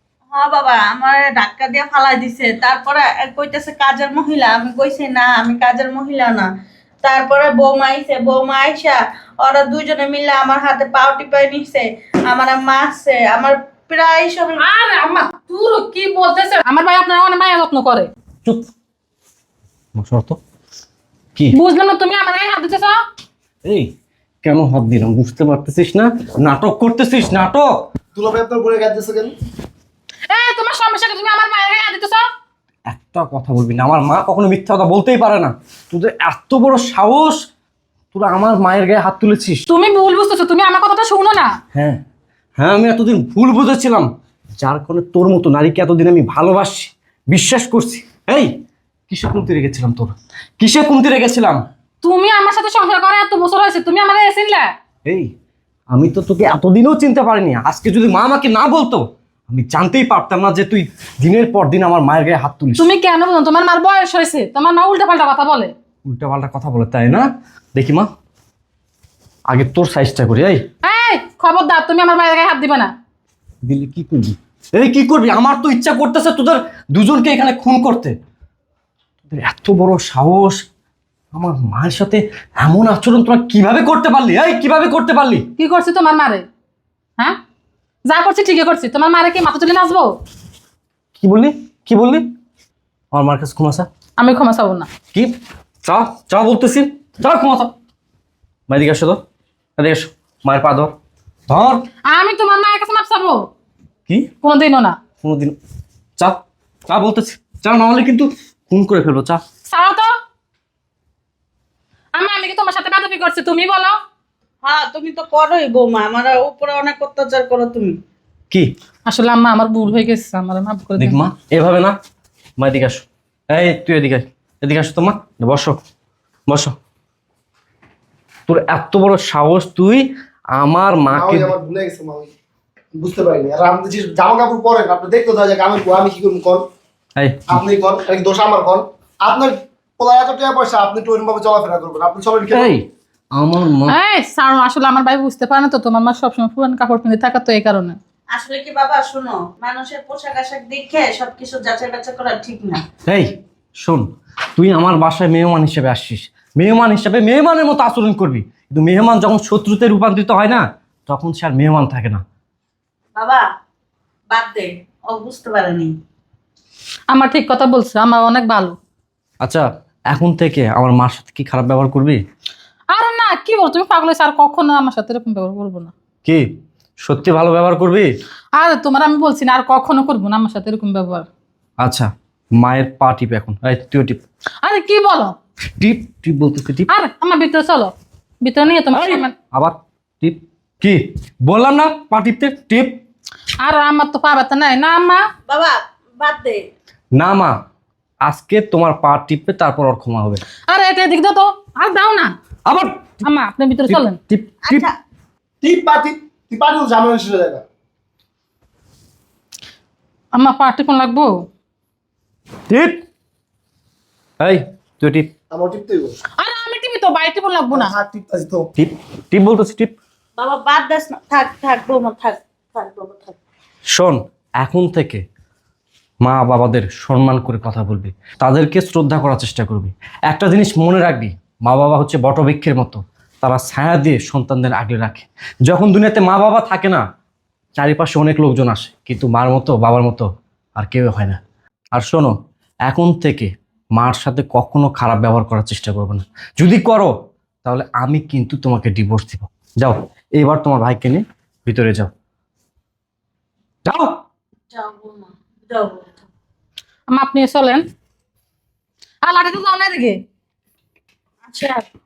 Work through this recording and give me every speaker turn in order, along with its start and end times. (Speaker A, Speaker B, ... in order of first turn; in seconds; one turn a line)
Speaker A: 0.3-6.5
Speaker A: 7.0-14.6
Speaker B: 14.6-18.1
Speaker C: 19.9-20.4
Speaker B: 21.5-23.0
Speaker C: 23.6-23.9
Speaker C: 24.4-27.7
Speaker D: 28.1-29.3
Speaker B: 30.3-32.2
Speaker C: 32.9-37.4
Speaker C: 38.1-39.6
Speaker B: 39.7-41.5
Speaker C: 41.7-42.0
Speaker C: 42.6-48.5
Speaker C: 49.1-51.6
Speaker B: 52.0-54.7
Speaker C: 55.9-62.9
Speaker B: 62.8-65.7
Speaker C: 66.0-68.1
Speaker C: 69.5-70.6
Speaker B: 70.8-72.9
Speaker C: 73.6-78.2
Speaker C: 79.3-80.6
Speaker C: 81.3-85.5
Speaker B: 85.5-86.4
Speaker B: 88.0-90.2
Speaker C: 91.2-92.3
Speaker C: 93.1-93.9
Speaker B: 94.2-94.9
Speaker C: 95.8-97.7
Speaker C: 98.7-99.2
Speaker C: 99.8-100.9
Speaker C: 101.5-101.8
Speaker B: 102.1-103.5
Speaker B: 104.4-105.0
Speaker C: 105.2-105.5
Speaker C: 106.2-109.4
Speaker B: 109.7-110.1
Speaker B: 112.1-114.0
Speaker A: 114.6-117.9
Speaker B: 119.1-121.2
Speaker C: 121.0-122.0
Speaker C: 122.6-125.8
Speaker C: 126.5-126.8
Speaker C: 128.5-131.5
Speaker D: 131.1-132.3
Speaker D: 132.9-136.6
Speaker C: 137.2-137.6
Speaker D: 137.5-142.7
Speaker C: 142.5-144.0
Speaker B: 143.9-148.0
Speaker A: 148.3-152.8
Speaker C: 153.0-154.0
Speaker C: 154.6-162.2
Speaker A: 163.2-163.4
Speaker A: 164.3-165.9
Speaker B: 167.1-168.7
Speaker C: 169.4-172.2
Speaker B: 172.9-175.9
Speaker C: 177.0-178.1
Speaker B: 178.6-181.3
Speaker C: 181.8-184.2
Speaker B: 184.6-185.3
Speaker C: 185.8-186.9
Speaker B: 186.9-189.3
Speaker C: 188.9-193.0
Speaker B: 193.6-195.2
Speaker A: 195.5-196.6
Speaker C: 197.1-197.6
Speaker C: 198.2-200.4
Speaker B: 200.7-202.3
Speaker C: 202.7-203.2
Speaker B: 203.2-204.2
Speaker C: 203.9-204.8
Speaker A: 204.6-205.0
Speaker D: 205.6-207.6
Speaker B: 210.3-211.4
Speaker C: 212.7-213.0
Speaker C: 214.4-215.3
Speaker D: 215.5-216.1
Speaker B: 216.4-217.9
Speaker D: 217.7-218.7
Speaker C: 218.8-219.9
Speaker A: 220.4-223.4
Speaker C: 223.9-225.2
Speaker C: 226.2-237.0
Speaker C: 237.7-241.4
Speaker C: 241.9-242.3
Speaker C: 242.8-247.1
Speaker C: 247.6-252.1
Speaker C: 253.8-254.1
Speaker A: 254.7-256.1
Speaker B: 257.1-257.8
Speaker B: 259.2-260.2
Speaker A: 261.4-261.8